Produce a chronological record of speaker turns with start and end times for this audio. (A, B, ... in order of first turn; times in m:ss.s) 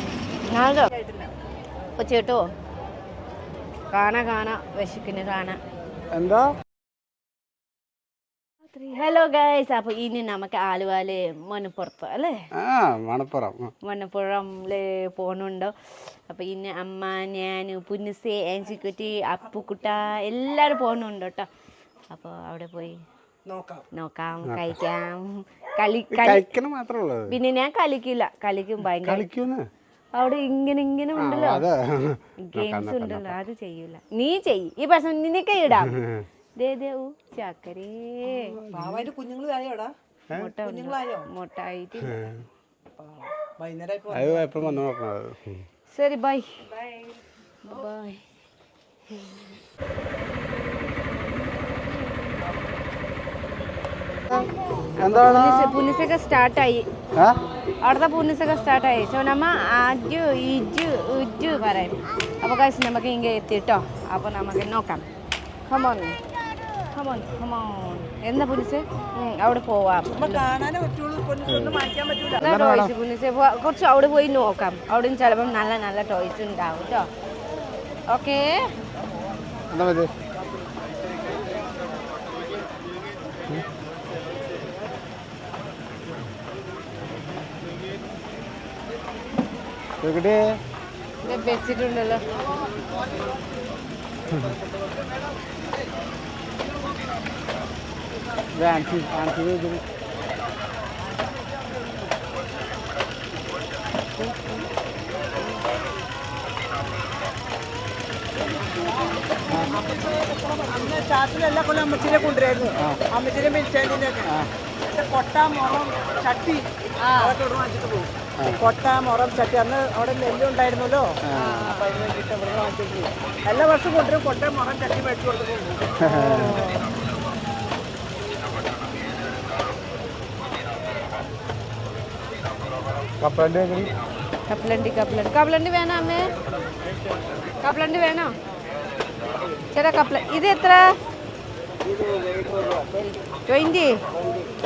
0:00.5-0:00.9 A
0:00.9-0:01.3 B
0:02.0-0:02.4 A
0:03.9-0:05.6 A
0:06.1-0:06.5 C
0:08.7-0:12.4 A
0:12.6-0:13.7 C
0:13.8-0:21.5 A
0:22.1-0:23.0 A
0:23.5-0:23.9 B
0:23.9-0:26.5 A
0:24.5-0:24.8 C
0:26.1-0:27.4 C
0:27.3-0:29.3 A
0:29.0-0:29.7 C
0:30.2-0:31.7 A
0:31.2-0:33.4 C
0:32.4-0:36.0 A
0:35.8-0:36.3 C
0:36.6-0:38.6 A
0:38.3-0:39.0 C
0:38.7-0:39.9 B
0:40.4-0:42.3 A
0:40.6-0:41.3 B
0:43.0-0:44.8 B
0:44.1-0:45.6 C
0:45.9-0:46.7 A
0:47.6-0:48.2 A
0:49.1-0:49.5 A
0:54.3-0:55.8 C
0:55.0-0:56.8 A
0:57.8-1:05.1 A
1:05.7-1:06.2 A
1:06.9-1:10.4 A
1:10.1-1:12.4 B
1:11.5-1:11.8 C
1:12.4-1:17.1 A
1:12.4-1:12.9 C
1:18.1-1:18.7 A
1:19.7-1:20.1 C
1:30.0-1:30.6 C
1:31.2-1:32.2 A
1:34.3-1:34.6 C
1:38.5-1:39.8 C
1:41.7-1:42.0 B
1:44.2-1:44.6 A
1:48.4-2:06.0 B
1:57.0-1:57.4 A
2:01.3-2:01.6 C
2:01.3-2:01.8 A
2:06.0-2:06.7 C
2:06.0-2:06.9 A
2:13.2-2:13.9 C
2:14.5-2:16.3 A
2:17.6-2:18.3 A
2:19.7-2:20.9 A
2:21.8-2:23.0 B
2:23.0-2:24.0 A
2:24.2-2:24.5 B